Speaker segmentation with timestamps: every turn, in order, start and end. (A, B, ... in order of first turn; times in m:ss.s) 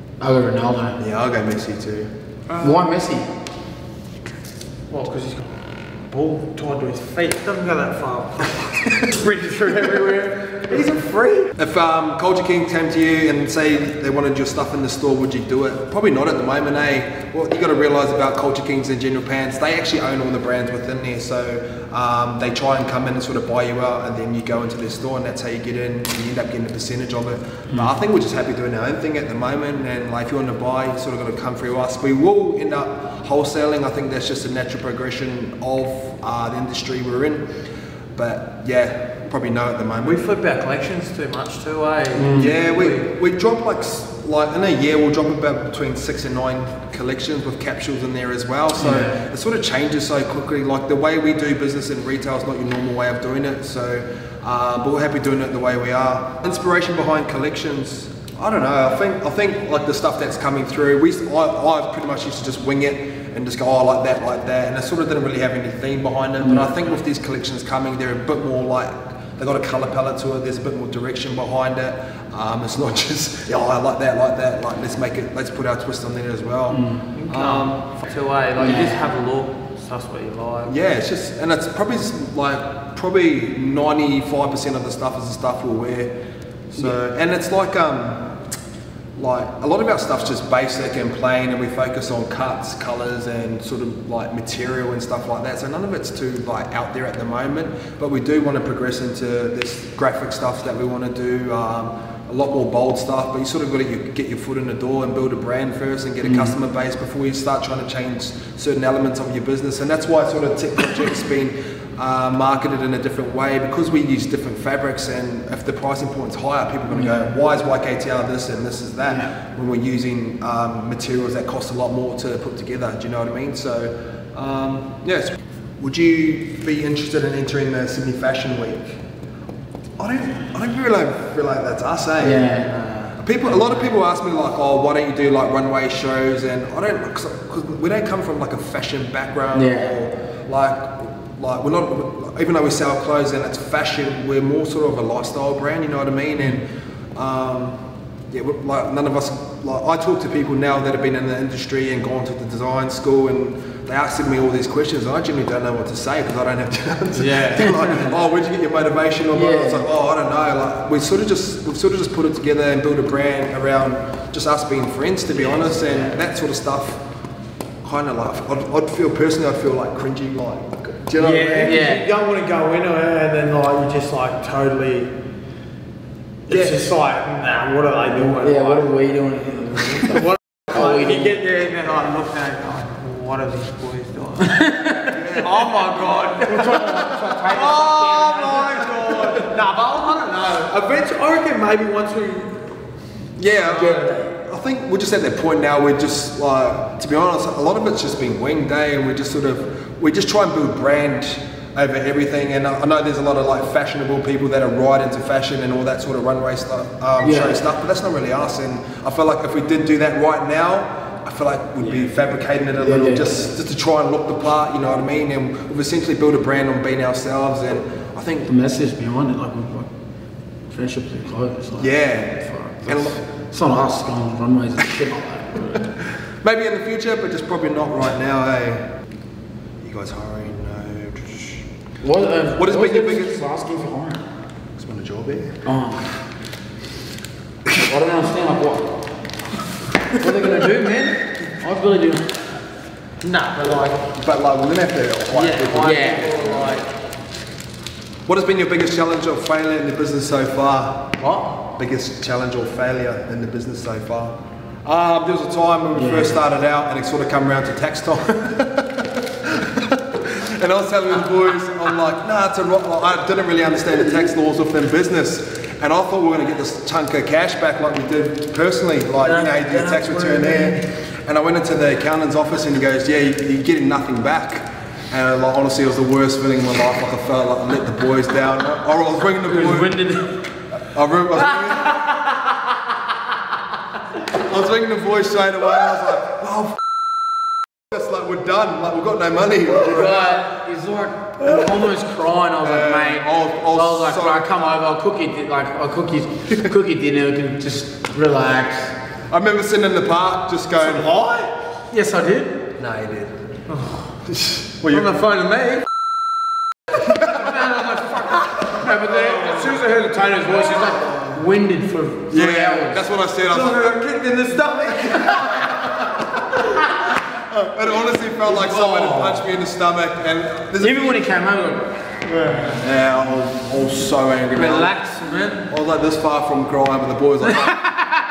0:00.2-0:01.0 A
0:01.0-0:02.1 B
0:02.5-0:02.8 C
0:02.6-0:03.3 A
0:04.9-0:11.5 C
0:11.6-0:37.4 B
0:27.7-0:28.0 A
0:38.1-0:40.2 B
0:40.0-0:43.1 C
0:42.1-0:42.6 A
0:42.3-1:17.8 B
0:48.8-0:49.2 A
1:06.4-1:06.8 A
1:16.7-1:17.0 A
1:17.1-1:20.7 C
1:18.6-1:19.0 A
1:20.7-1:26.1 B
1:26.7-1:28.3 B
1:29.2-2:09.0 B
1:46.2-1:46.6 A
1:56.9-1:57.3 A
1:59.1-1:59.3 A
2:10.0-2:27.8 B
2:12.2-2:13.1 A
2:19.5-2:19.9 A
2:28.3-2:47.0 B
2:37.1-2:38.1 C
2:39.3-2:39.9 A
2:47.8-2:51.9 B
2:51.2-2:55.1 C
2:51.6-2:52.0 A
2:56.5-2:58.9 C
2:56.5-2:56.8 B
2:58.3-3:01.4 A
3:00.1-3:12.7 C
3:04.7-3:05.2 A
3:05.1-3:05.9 B
3:06.4-3:08.9 A
3:13.4-3:38.5 B
3:13.7-3:14.3 A
3:13.8-3:14.1 C
3:27.2-3:27.6 A
3:32.8-3:33.5 A
3:38.5-3:39.9 A
3:40.7-3:45.9 A
3:41.8-3:43.2 B
3:46.4-3:48.8 B
3:49.8-3:51.6 B
3:52.0-3:54.2 A
3:52.6-3:53.4 B
3:54.8-3:55.6 B
3:55.6-3:56.1 A
3:57.7-3:59.0 A
4:00.1-4:02.4 A
4:03.2-4:04.1 C
4:04.1-4:06.8 B
4:05.3-4:06.9 C
4:05.8-4:06.3 A
4:08.2-4:11.1 B
4:11.2-4:11.6 C
4:11.7-4:39.9 B
4:15.9-4:16.4 A
4:29.2-4:30.8 A
4:39.4-4:40.4 A
4:40.9-4:42.0 B
4:44.3-4:46.8 B
4:47.9-4:50.4 B
4:49.7-4:58.9 A
4:52.6-4:54.7 B
4:59.3-5:01.1 B
5:00.8-5:01.5 C
5:01.9-5:02.7 A
5:02.8-5:03.3 B
5:03.7-5:04.1 C
5:04.2-5:05.1 B
5:04.9-5:05.9 C
5:07.4-5:08.8 C
5:08.6-5:13.0 A
5:10.8-5:11.4 B
5:12.3-5:14.0 B
5:13.5-5:15.9 C
5:17.5-5:21.2 B
5:18.5-5:19.4 C
5:18.9-5:19.2 A
5:20.8-5:21.9 A
5:22.2-5:22.8 C
5:22.7-5:24.9 B
5:24.5-5:25.7 C
5:25.7-5:27.8 B